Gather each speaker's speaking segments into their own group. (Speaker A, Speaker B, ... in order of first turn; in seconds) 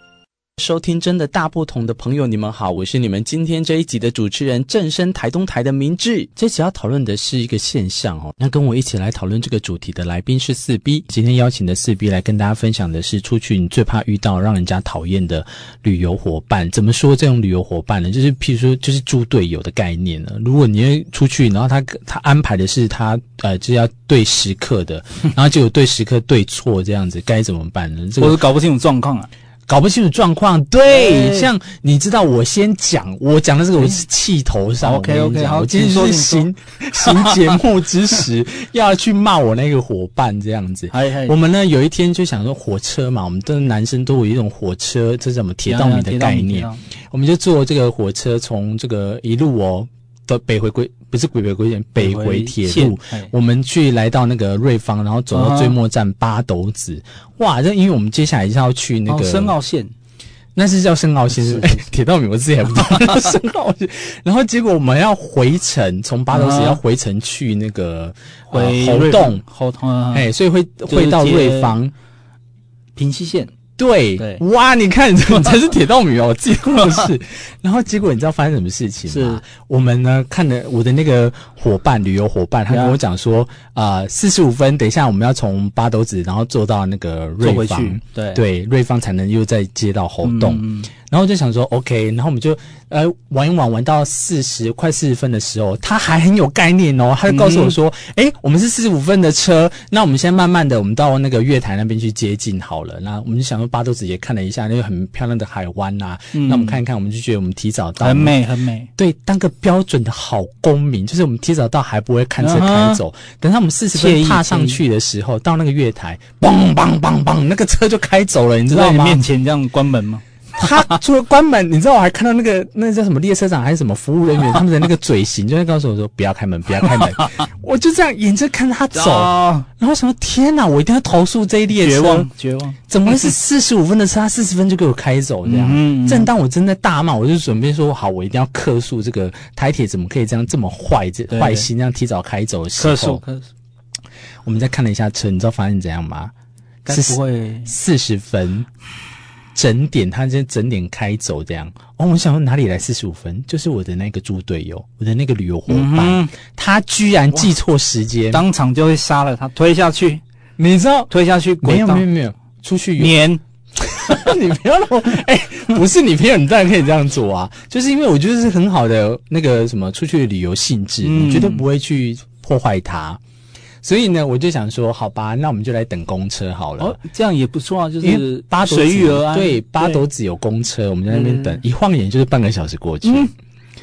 Speaker A: 0.6-28.4, 29.7-59.6, 60.6-69.4, 70.1-71.9, 73.8-108.4, 109.0-119.2, 120.6-132.3, 132.9-143.2, 144.4-146.3, 146.9-148.7, 149.6-158.4, 160.6-163.2, 163.8-173.2, 173.8-177.0, 178.0-183.3
Speaker B: 28.2-29.3, 30.9-31.5, 33.8-34.0, 34.8-36.5, 37.1-37.5, 40.9-41.4, 45.7-46.8, 52.0-53.3, 55.3-55.8, 59.1-59.9, 61.3-61.9, 66.3-66.8, 68.5-70.3, 70.9-71.8, 73.0-73.5, 74.2-74.4, 79.1-79.4, 82.7-83.0, 87.4-88.4, 90.2-90.9, 97.3-97.8, 106.3-106.8, 108.0-108.9, 112.4-113.0, 113.9-114.8, 118.7-120.9, 128.9-129.7, 131.7-132.8, 135.4-136.3, 141.3-141.7, 142.8-143.5, 146.8-147.7, 155.7-156.3, 158.3-160.2, 161.1-162.1, 163.0-163.4, 171.0-171.7, 176.8-180.0, 181.1-181.6, 183.0-183.3